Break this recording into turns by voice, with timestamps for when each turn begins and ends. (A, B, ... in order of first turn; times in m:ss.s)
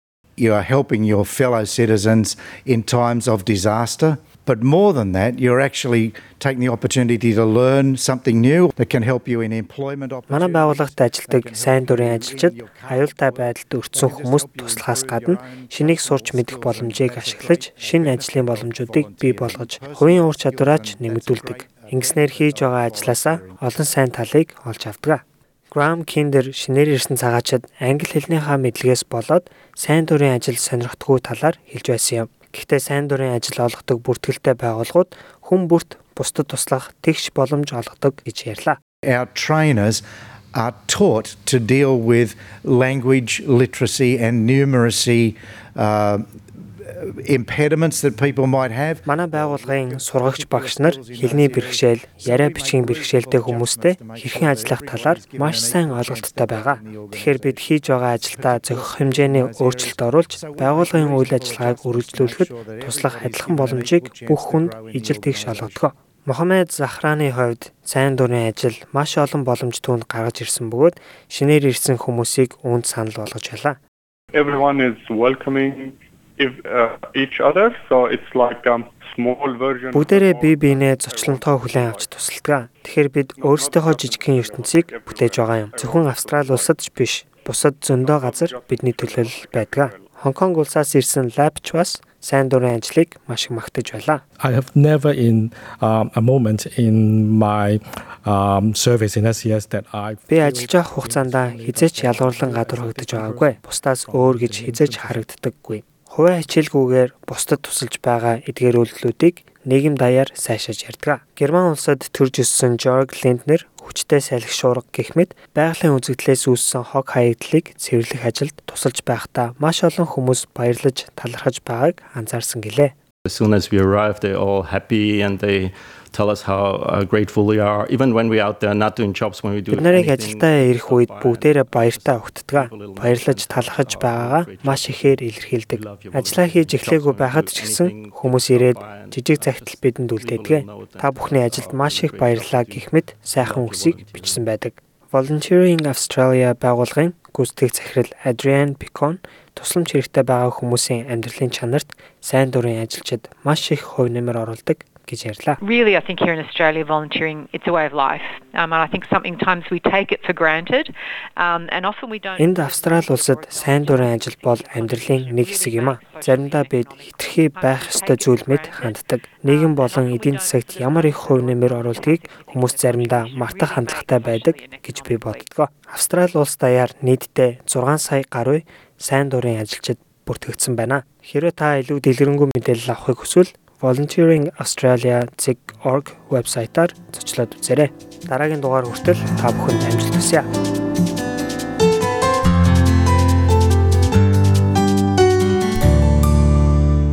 0:00.4-0:23.6 A
0:10.3-0:38.8 B
0:39.1-0:40.0 A
0:40.5-0:46.3 A
0:46.8-0:57.7 A
0:49.1-1:13.8 B
0:58.3-1:05.9 A
1:14.3-1:22.1 C
1:19.9-1:34.2 B
1:23.4-1:26.9 C
1:28.0-1:30.1 C
1:34.4-1:45.2 D
1:40.3-2:03.0 B
2:03.3-2:24.4 E
2:09.7-2:35.6 B
2:35.6-2:55.4 F
2:42.4-3:10.5 B